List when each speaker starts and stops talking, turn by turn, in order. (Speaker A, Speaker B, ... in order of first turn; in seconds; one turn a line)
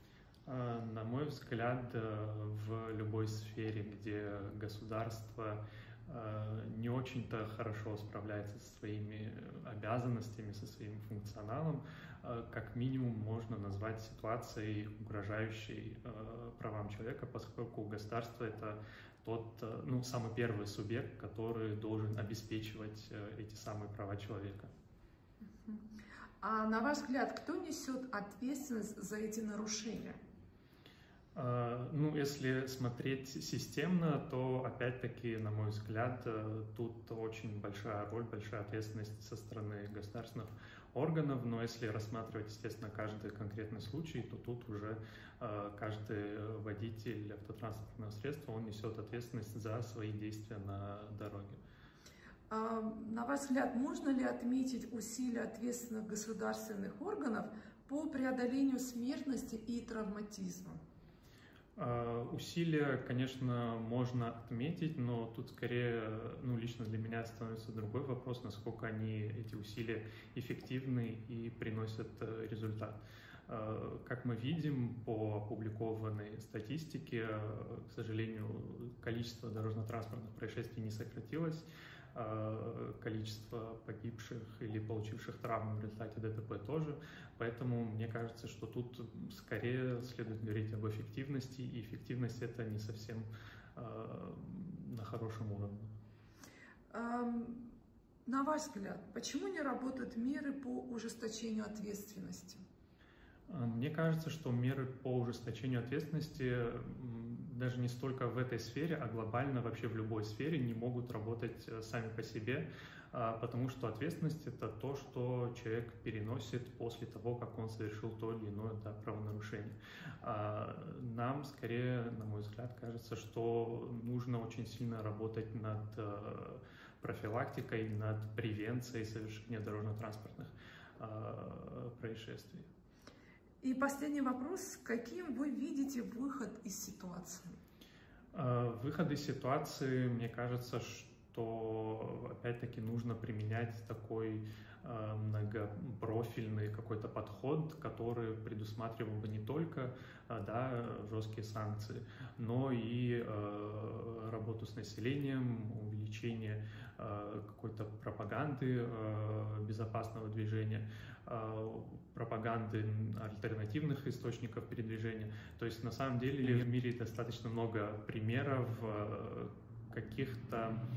Speaker A: 0.5-24.7
Speaker B: 25.4-25.9
Speaker B: 26.4-30.2
Speaker A: 31.3-51.6
Speaker B: 52.5-60.8
Speaker A: 61.8-95.9
Speaker B: 96.9-97.7
Speaker B: 98.2-102.6
Speaker A: 103.5-132.7
Speaker B: 133.6-137.5
Speaker A: 138.3-170.8